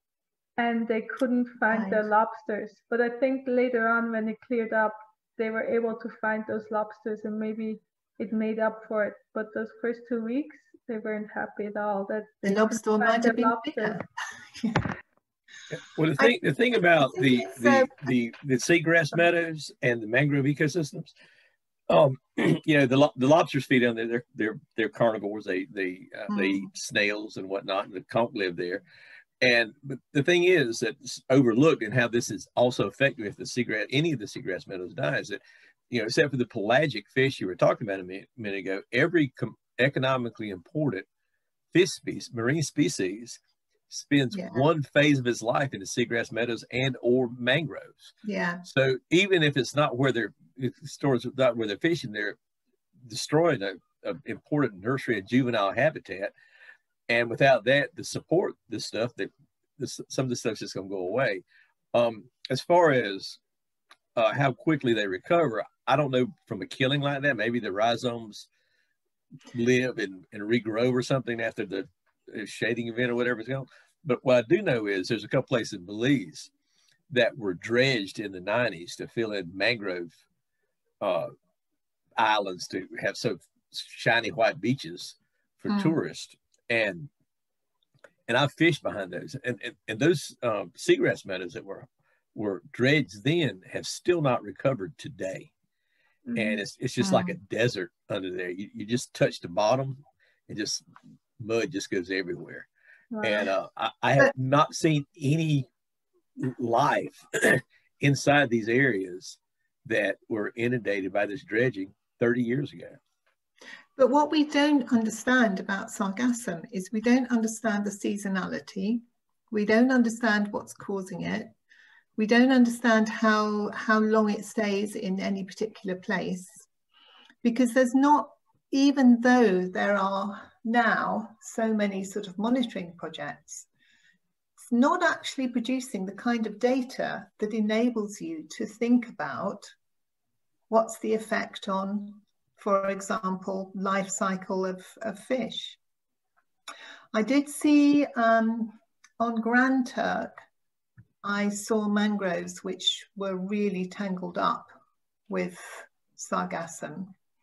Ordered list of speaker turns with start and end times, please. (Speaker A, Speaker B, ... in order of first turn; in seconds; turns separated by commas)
Speaker A: 0.6-14.0, Speaker B: 1.7-2.1, Speaker B: 12.4-14.8, Speaker C: 15.7-21.1, Speaker B: 17.0-17.9, Speaker C: 21.9-28.8, Speaker B: 26.3-26.7, Speaker C: 29.4-41.0, Speaker C: 41.7-43.4, Speaker C: 43.9-48.1, Speaker B: 44.3-44.6, Speaker B: 48.2-48.6, Speaker C: 48.6-52.4, Speaker C: 53.0-56.3, Speaker C: 57.1-61.4, Speaker C: 61.9-63.4, Speaker C: 64.2-68.5, Speaker C: 69.5-76.5, Speaker C: 77.1-80.1, Speaker C: 81.0-81.3, Speaker C: 82.2-87.1, Speaker B: 85.7-86.0, Speaker C: 88.3-95.5, Speaker A: 96.2-96.6, Speaker C: 96.3-100.8, Speaker B: 97.0-97.4, Speaker C: 101.4-102.7, Speaker A: 103.1-103.5, Speaker C: 103.2-105.7, Speaker C: 106.4-113.0, Speaker B: 114.0-121.5, Speaker B: 122.2-126.7, Speaker B: 127.4-133.7, Speaker B: 134.6-139.7, Speaker B: 140.7-145.8, Speaker B: 147.1-150.4, Speaker B: 151.2-154.7, Speaker B: 155.3-157.1